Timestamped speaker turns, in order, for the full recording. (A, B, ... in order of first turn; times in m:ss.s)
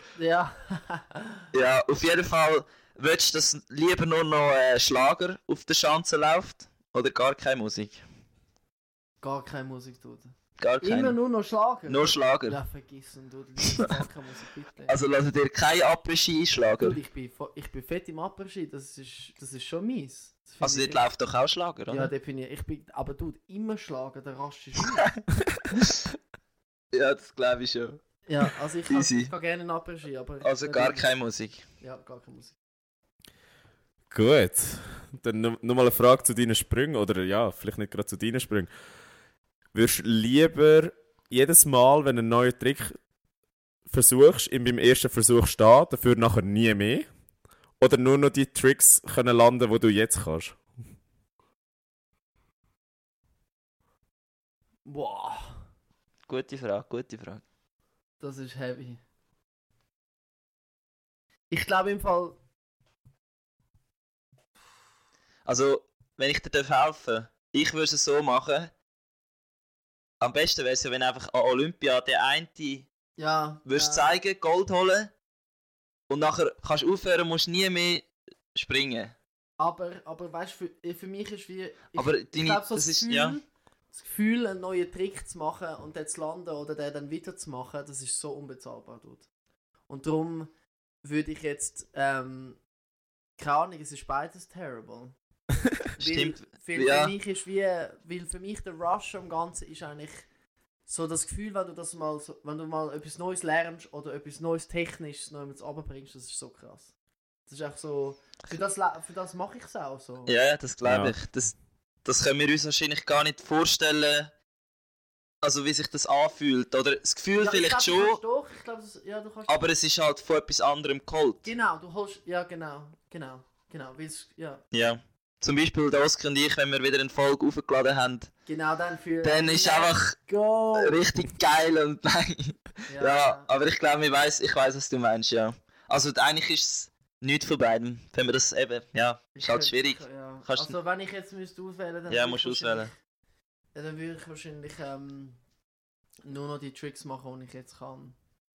0:00.2-0:01.5 A
0:01.5-0:08.0 B
0:09.2-0:15.0 A
0:10.6-0:11.2 B
0:11.8-0:12.6 B
0:14.9-0:17.0 B
0:16.8-0:21.0 A
0:20.6-0:22.1 B
0:21.9-0:25.1 A
0:26.9-0:28.0 B
0:28.3-0:31.1 A
0:28.9-0:29.3 B
0:30.4-0:31.6 B
0:31.8-0:32.6 A
0:34.1-0:38.7 C
0:39.7-0:43.0 C
0:43.9-0:47.0 C
0:47.8-0:50.6 C
0:54.8-0:55.6 A
0:56.3-0:57.4 B
0:58.2-0:59.0 A
1:01.5-1:02.4 A
1:05.4-1:08.7 B
1:10.2-1:12.9 B
1:13.2-1:14.1 A
1:13.6-1:15.1 B
1:16.1-1:19.1 B
1:19.6-1:29.3 A
1:22.0-1:23.4 B
1:29.9-1:30.5 A
1:31.0-1:32.6 A
1:33.4-1:35.1 A
1:36.0-1:40.2 A
1:36.0-1:37.1 B
1:40.9-1:46.9 A
1:47.5-1:50.3 A
1:50.3-1:54.3 B
1:50.8-1:51.1 C
1:55.4-1:58.2 B
1:57.4-1:59.6 A
1:59.5-2:01.5 B
2:01.4-2:04.6 A
2:04.7-2:08.3 B
2:08.4-2:11.0 A
2:09.2-2:10.2 B
2:10.7-2:20.7 B
2:12.9-2:13.5 A
2:19.3-2:22.9 A
2:22.1-2:22.9 B
2:23.7-2:25.4 A
2:26.2-2:28.2 A